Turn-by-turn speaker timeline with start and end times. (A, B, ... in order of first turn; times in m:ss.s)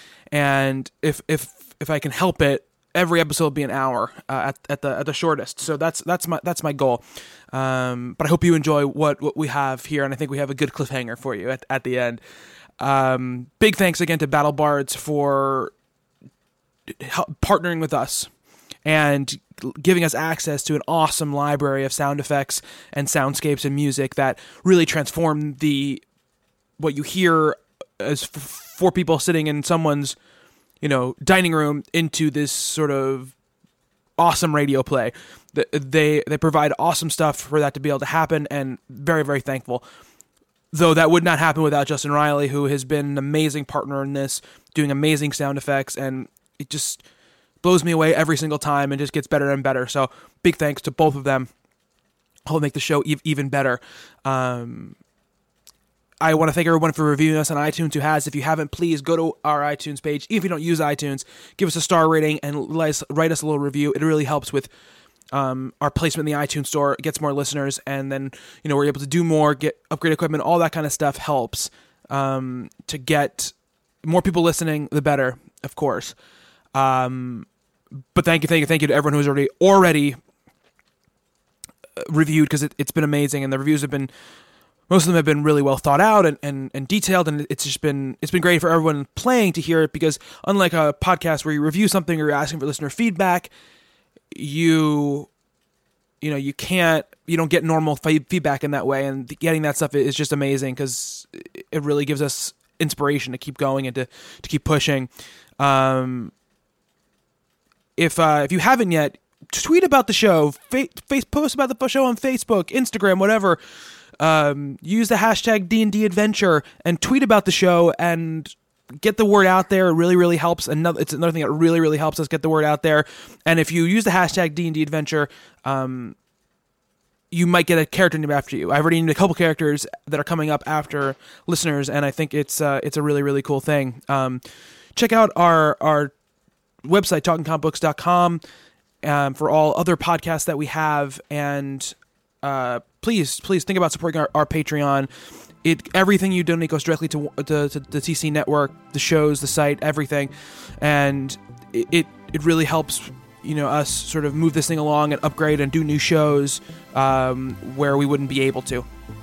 0:00.3-0:12.2 A
0:12.8-0:15.7 A
0:16.9-0:18.3 A
0:18.8-0:26.0 A
0:26.8-0:30.2 A
0:30.8-0:33.3 A
0:34.2-0:39.8 A
0:40.7-0:47.0 A
0:47.6-0:51.5 A
0:52.4-0:55.0 A
0:56.2-1:04.7 A
1:05.3-1:16.1 A
1:16.7-1:17.5 A
1:18.1-1:20.2 A
1:22.0-1:24.1 A
1:24.9-1:33.5 A
1:34.3-1:35.3 A
1:36.2-1:46.3 A
1:48.0-1:53.6 A
1:54.2-2:06.2 A
2:07.3-2:14.4 A
2:14.9-2:16.1 A
2:16.8-2:18.4 A
2:19.0-2:25.1 A
2:25.6-2:38.9 A